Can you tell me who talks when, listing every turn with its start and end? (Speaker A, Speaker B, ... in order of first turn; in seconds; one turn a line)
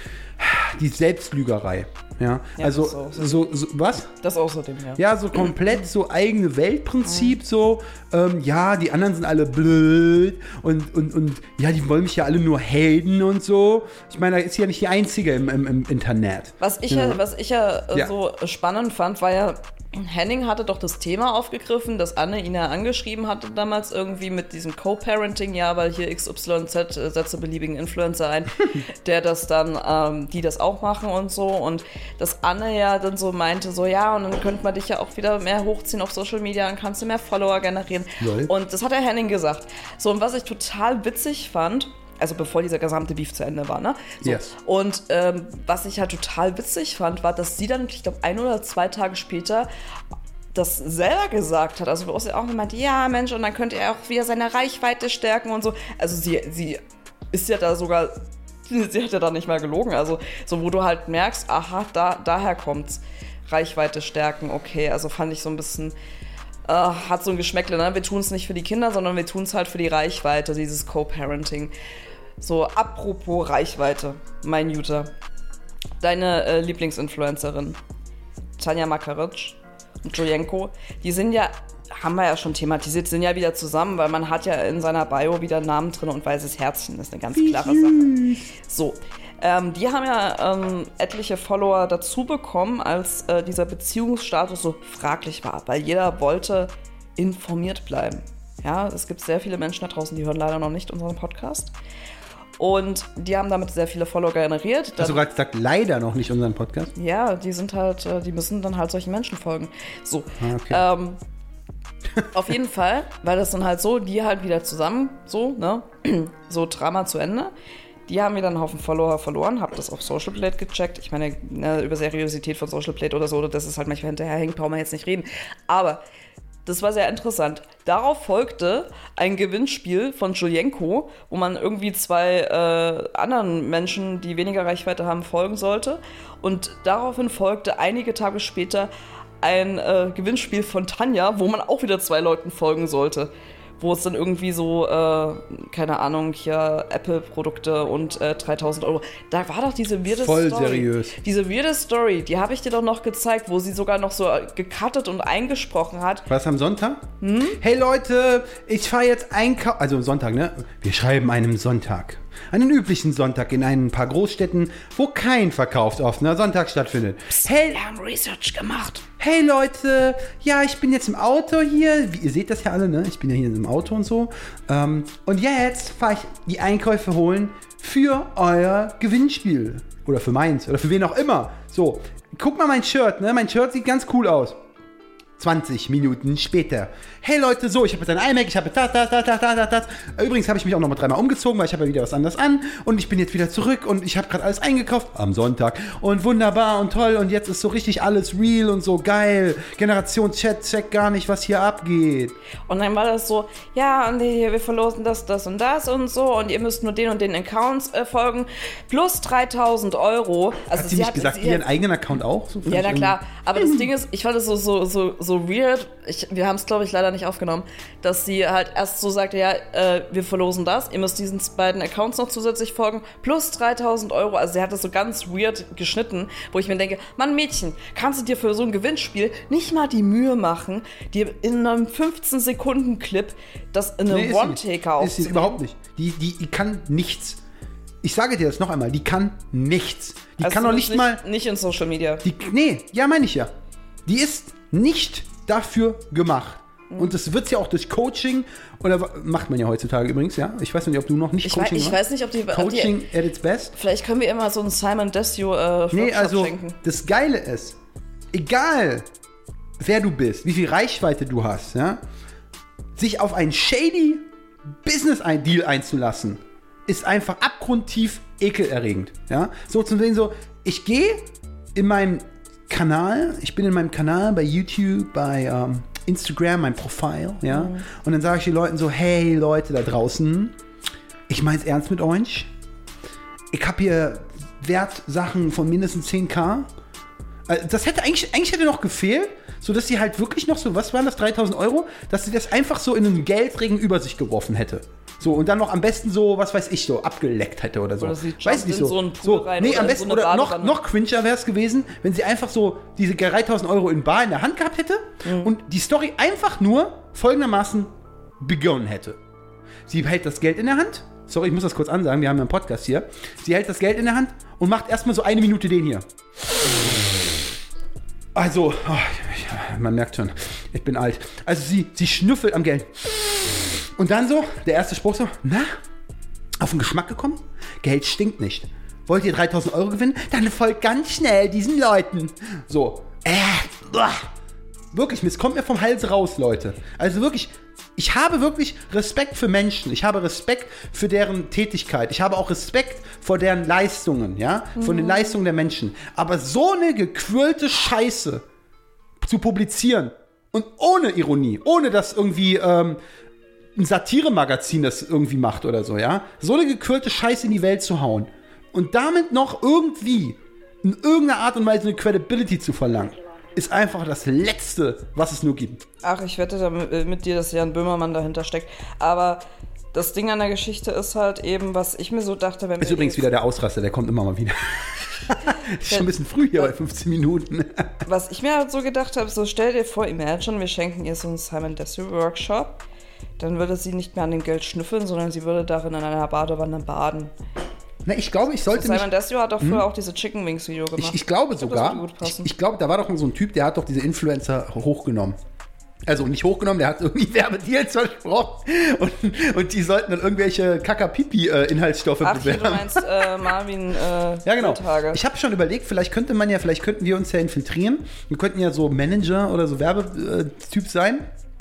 Speaker A: 0.4-4.1
Speaker B: 2.6-3.5
Speaker B: 4.2-5.5
Speaker A: 5.0-17.2
Speaker B: 7.0-7.4
Speaker B: 16.6-49.7
Speaker A: 38.2-38.5
Speaker A: 44.2-44.5
Speaker B: 50.5-56.8
Speaker B: 57.3-66.0
Speaker B: 66.7-71.7
Speaker B: 72.4-75.1
Speaker B: 76.0-77.8
Speaker B: 78.6-101.7
Speaker A: 87.3-88.4
Speaker B: 102.6-105.2
Speaker A: 105.0-106.9
Speaker B: 107.0-111.2
Speaker A: 110.4-110.8
Speaker B: 112.3-117.5
Speaker B: 118.1-126.0
Speaker B: 126.7-138.9
Speaker B: 139.4-156.3
Speaker A: 150.1-151.2
Speaker A: 156.3-157.1
Speaker B: 157.2-157.6
Speaker A: 157.6-167.8
Speaker B: 167.4-169.1
Speaker A: 169.2-184.6
Speaker A: 185.4-202.3
Speaker B: 202.7-211.7
Speaker A: 210.7-213.9
Speaker B: 212.7-235.6
Speaker A: 234.1-237.4
Speaker A: 238.0-241.2
Speaker B: 240.4-242.2
Speaker A: 242.2-243.5
Speaker A: 244.1-253.7
Speaker B: 246.9-247.2
Speaker B: 251.4-253.0
Speaker B: 253.8-256.8
Speaker A: 255.9-257.8
Speaker A: 258.3-259.1
Speaker A: 259.8-262.0
Speaker A: 262.9-264.3
Speaker A: 264.8-280.6
Speaker B: 277.5-277.9
Speaker A: 281.3-282.5
Speaker A: 283.5-286.7
Speaker A: 287.5-309.2
Speaker B: 298.0-300.8
Speaker B: 305.2-305.5
Speaker A: 309.9-316.1
Speaker A: 318.4-325.7
Speaker A: 326.6-334.3
Speaker A: 334.9-348.4
Speaker B: 344.8-345.4
Speaker A: 349.2-353.0
Speaker A: 353.8-365.8
Speaker B: 366.0-373.2
Speaker A: 372.8-378.0
Speaker B: 375.9-376.7
Speaker B: 378.1-382.8
Speaker B: 383.4-387.3
Speaker A: 388.1-389.1
Speaker B: 388.7-392.5
Speaker A: 389.6-389.9
Speaker A: 391.0-395.4
Speaker A: 396.1-403.3
Speaker B: 402.2-405.2
Speaker A: 404.4-411.3